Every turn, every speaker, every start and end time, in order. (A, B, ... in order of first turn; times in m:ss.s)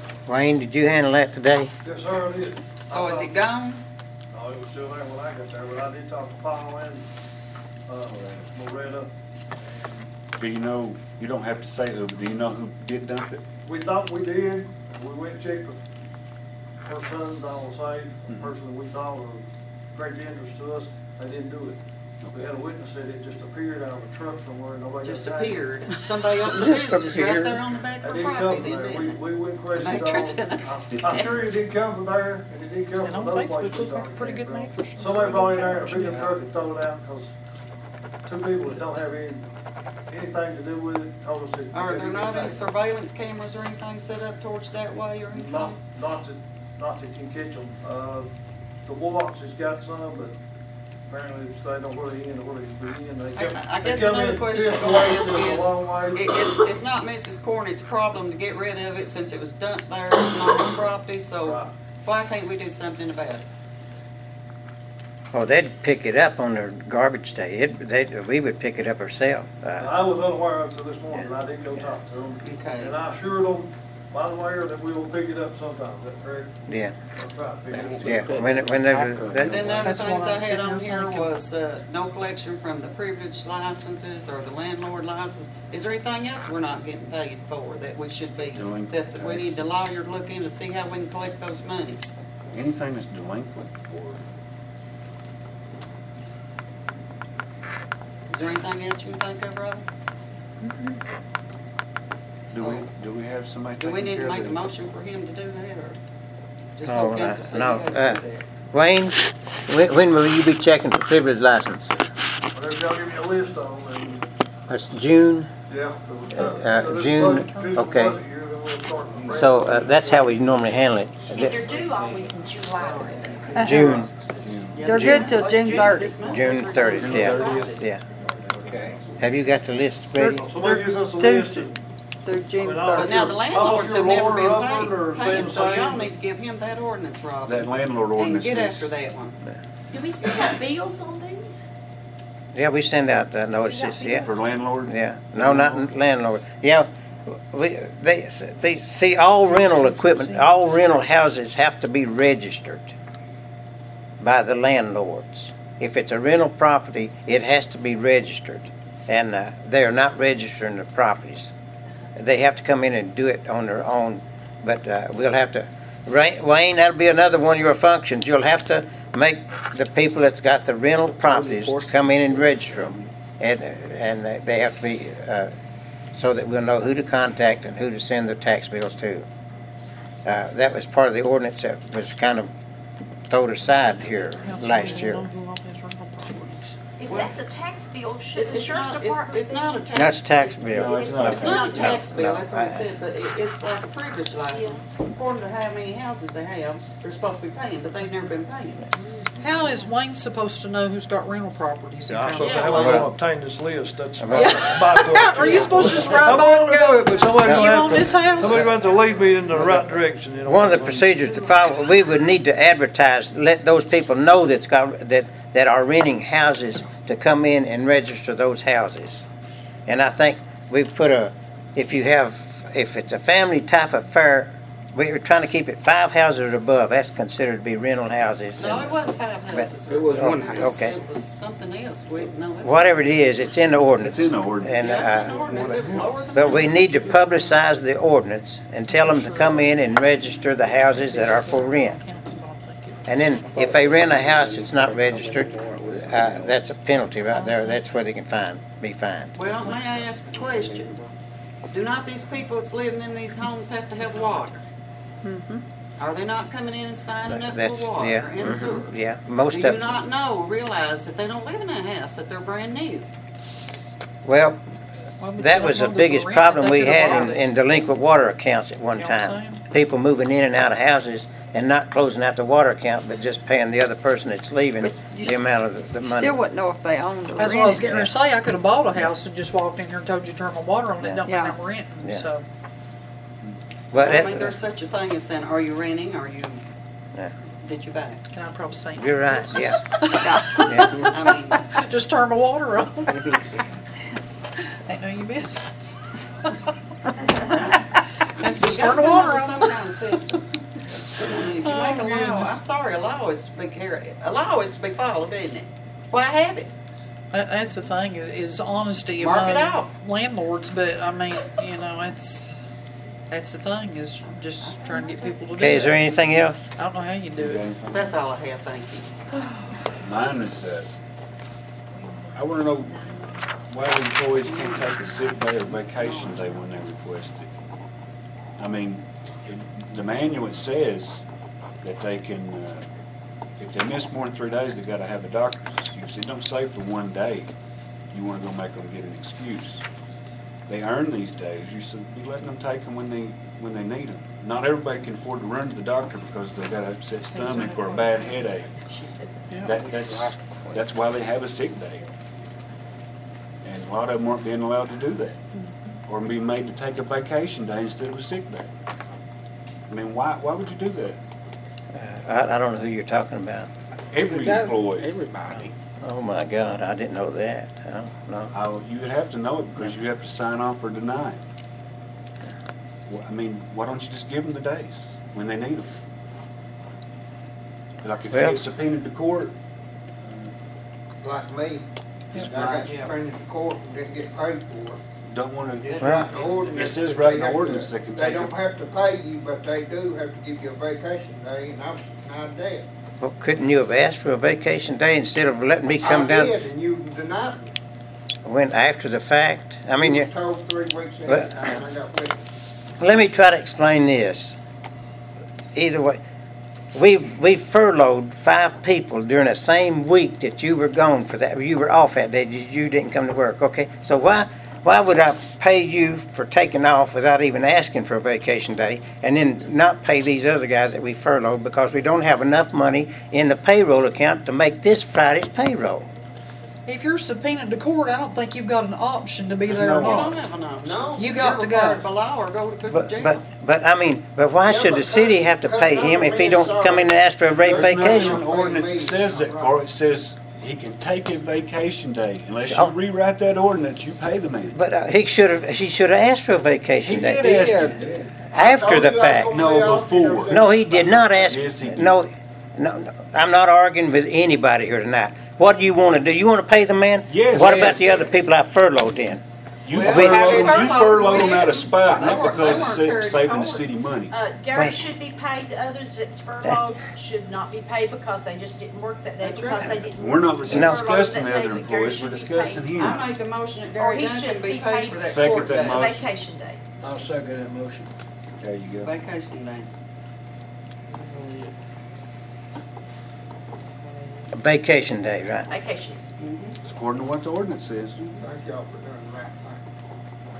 0:00.3-0:01.7 A
0:01.8-0:03.3 B
0:02.9-0:03.8 C
0:04.3-0:07.0 B
0:07.9-0:09.1 B
0:08.1-0:08.5 D
0:10.4-0:13.4 E
0:13.6-0:15.8 B
0:16.8-0:21.8 B
0:18.3-0:18.5 E
0:22.2-0:22.5 E
0:22.3-0:25.7 B
0:25.0-0:31.3 C
0:26.7-0:27.1 F
0:28.0-0:37.3 B
0:30.9-0:31.4 E
0:33.0-0:36.4 G
0:38.2-0:39.4 B
0:40.1-0:42.6 B
0:41.7-0:45.8 C
0:45.3-0:48.3 B
0:48.8-0:50.4 B
0:51.1-0:56.7 B
0:53.4-1:03.4 C
1:01.4-1:01.7 B
1:05.3-1:10.1 A
1:09.8-1:16.5 B
1:11.1-1:11.8 A
1:12.4-1:13.0 C
1:16.7-1:16.9 A
1:17.2-1:18.5 B
1:17.7-1:18.0 D
1:17.7-1:19.9 F
1:18.0-1:19.8 A
1:19.3-1:32.1 C
1:19.8-1:21.3 G
1:28.5-1:29.6 E
1:32.5-1:34.2 E
1:38.3-1:39.8 C
1:40.6-1:41.0 G
1:42.5-1:42.8 C
1:42.5-1:44.6 E
1:43.8-1:46.0 C
1:46.8-1:48.4 C
1:46.8-1:48.2 A
1:48.7-1:52.0 A
1:52.5-1:54.2 B
1:54.7-1:55.5 A
1:55.7-2:00.3 B
1:56.3-1:58.2 A
1:57.0-1:57.8 G
1:59.3-2:01.6 A
2:01.3-2:04.1 H
2:03.6-2:04.0 I
2:03.6-2:04.1 A
2:03.8-2:04.8 E
2:04.8-2:06.8 H
2:04.8-2:06.3 I
2:04.9-2:05.3 A
2:04.9-2:07.8 C
2:06.3-2:08.0 A
2:06.8-2:07.8 E
2:08.5-2:09.0 D
2:09.2-2:10.5 A
2:10.3-2:11.8 B
2:10.5-2:11.7 I
2:12.2-2:13.2 I
2:12.6-2:16.1 B
2:12.9-2:19.4 C
2:17.4-2:18.9 E
2:19.9-2:21.6 H
2:22.5-2:24.3 A
2:23.6-2:24.5 H
2:24.2-2:25.9 E
2:24.8-2:32.9 A
2:29.5-2:30.5 G
2:34.2-2:41.5 A
2:42.2-2:55.5 A
2:51.1-2:53.1 F
2:56.1-2:59.2 A
3:00.2-3:02.5 A
3:03.3-3:05.2 A
3:04.4-3:06.8 G
3:07.0-3:09.8 H
3:07.0-3:07.4 C
3:08.3-3:18.9 C
3:09.9-3:12.8 A
3:10.7-3:12.0 E
3:10.8-3:12.2 H
3:14.5-3:14.8 H
3:19.1-3:19.8 H
3:19.4-3:23.1 G
3:22.1-3:31.1 B
3:22.4-3:23.0 C
3:22.7-3:23.1 A
3:24.2-3:24.6 A
3:24.3-3:28.8 G
3:25.9-3:26.2 C
3:27.4-3:28.7 A
3:29.5-3:29.8 A
3:30.4-3:39.2 A
3:39.9-3:49.0 A
3:48.6-3:53.0 C
3:49.5-3:51.0 A
3:49.9-3:51.0 F
3:52.6-4:02.0 A
3:54.0-3:55.2 E
3:54.8-3:57.2 C
3:58.9-3:59.8 G
4:01.0-4:03.3 G
4:03.1-4:09.4 A
4:03.4-4:06.6 F
4:07.3-4:07.8 G
4:09.3-4:10.9 C
4:10.3-4:11.1 F
4:11.7-4:14.6 C
4:15.2-4:15.6 I
4:16.0-4:23.1 C
4:17.3-4:19.8 A
4:24.2-4:24.6 A
4:25.2-4:27.4 G
4:25.4-4:36.4 A
4:29.0-4:29.6 G
4:34.8-4:35.3 H
4:36.1-4:38.0 I
4:37.4-4:42.4 G
4:37.8-4:38.1 A
4:41.0-4:41.2 A
4:41.2-4:41.6 I
4:43.9-4:44.5 A
4:44.0-4:46.6 C
4:47.6-4:48.2 C
4:48.3-4:53.3 G
4:49.0-4:49.8 A
4:50.2-4:50.7 I
4:50.5-4:51.0 A
4:51.1-4:51.7 C
4:54.8-4:56.5 G
4:58.2-4:59.8 G
4:58.4-5:00.4 C
5:01.2-5:06.7 C
5:01.2-5:02.6 G
5:07.3-5:12.5 G
5:09.2-5:09.9 C
5:13.3-5:16.2 G
5:14.6-5:15.7 C
5:15.6-5:16.7 A
5:16.8-5:17.6 G
5:17.3-5:18.1 E
5:17.9-5:19.1 C
5:19.4-5:19.9 H
5:20.0-5:20.9 E
5:22.0-5:23.4 H
5:22.3-5:23.0 E
5:23.7-5:27.5 E
5:24.5-5:25.1 C
5:25.8-5:26.5 C
5:28.6-5:31.2 E
5:31.8-5:32.8 E
5:33.6-5:37.5 E
5:38.1-5:39.8 E
5:40.7-5:48.7 E
5:47.3-5:48.3 G
5:49.6-5:52.0 E
5:49.7-5:50.8 F
5:53.6-5:55.4 E
5:56.0-5:58.7 E
5:59.9-6:01.2 E
6:01.9-6:03.7 A
6:04.1-6:05.1 E
6:04.2-6:05.7 F
6:06.0-6:08.5 A
6:08.5-6:11.4 E
6:13.0-6:16.0 E
6:18.0-6:19.5 E
6:18.3-6:18.6 A
6:21.2-6:25.0 J
6:22.3-6:23.1 G
6:22.4-6:23.0 E
6:25.3-6:28.5 E
6:25.8-6:32.8 J
6:26.0-6:26.3 A
6:33.2-6:36.6 A
6:36.0-6:37.6 J
6:38.4-6:40.3 A
6:40.0-6:42.4 J
6:41.3-6:41.6 A
6:43.0-6:44.6 A
6:45.7-6:46.2 A
6:46.9-7:06.1 A
7:06.8-7:10.4 G
7:09.7-7:10.4 E
7:09.8-7:13.4 C
7:10.8-7:11.2 J
7:11.1-7:12.0 G
7:12.9-7:18.4 A
7:14.6-7:19.8 J
7:17.6-7:24.8 E
7:24.7-7:27.8 A
7:27.0-7:28.0 F
7:27.1-7:28.3 E
7:28.5-7:31.3 J
7:28.5-7:29.6 A
7:29.5-7:32.2 E
7:30.5-7:39.4 A
7:37.3-7:38.3 E
7:39.8-7:44.3 E
7:39.9-7:43.7 C
7:40.0-7:41.6 F
7:40.0-7:40.3 A
7:42.6-7:53.3 H
7:44.7-7:45.0 A
7:49.4-7:50.1 C
7:50.1-7:53.3 E
7:50.7-7:51.0 A
7:53.0-7:56.2 C
7:54.0-7:56.8 H
7:55.2-7:56.3 E
7:57.0-7:58.1 D
7:58.6-7:59.1 E
7:59.0-7:59.9 C
8:01.2-8:01.7 J
8:04.5-8:05.7 A
8:05.7-8:06.2 H
8:06.4-8:06.8 C
8:06.8-8:08.2 E
8:08.4-8:09.8 J